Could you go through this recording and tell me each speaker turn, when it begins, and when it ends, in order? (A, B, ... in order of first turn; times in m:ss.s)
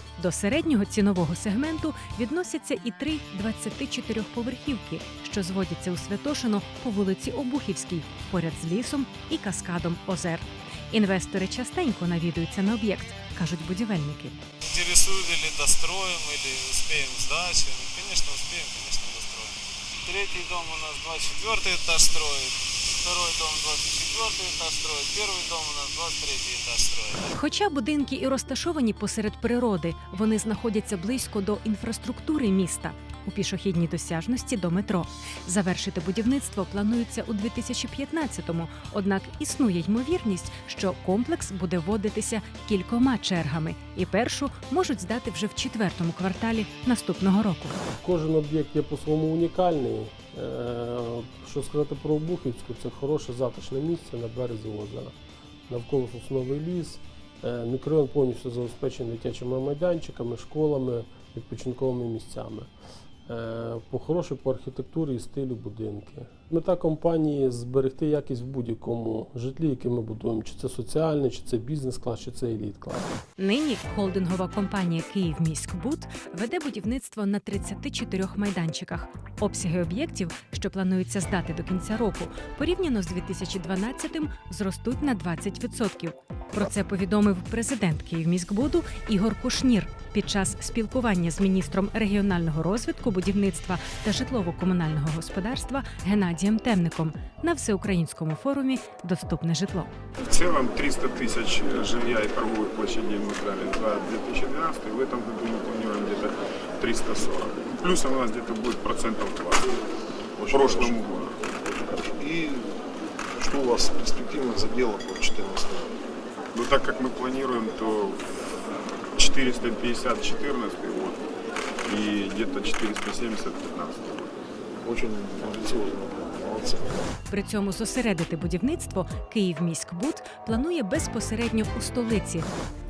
0:00.2-0:14.4 A
0:14.6-0:27.3 B
0:27.3-0:47.8 A
0:48.0-0:55.1 C
0:55.7-1:02.7 C
1:03.3-1:13.1 C
1:13.4-1:39.9 A
1:40.2-1:49.7 D
1:50.4-1:51.1 E
1:50.5-1:51.4 D
1:51.6-1:52.8 E
1:53.3-1:56.0 E
1:56.5-1:58.2 D
1:59.2-2:01.2 D
2:01.8-2:04.3 D
2:04.8-2:07.1 E
2:07.3-2:12.5 A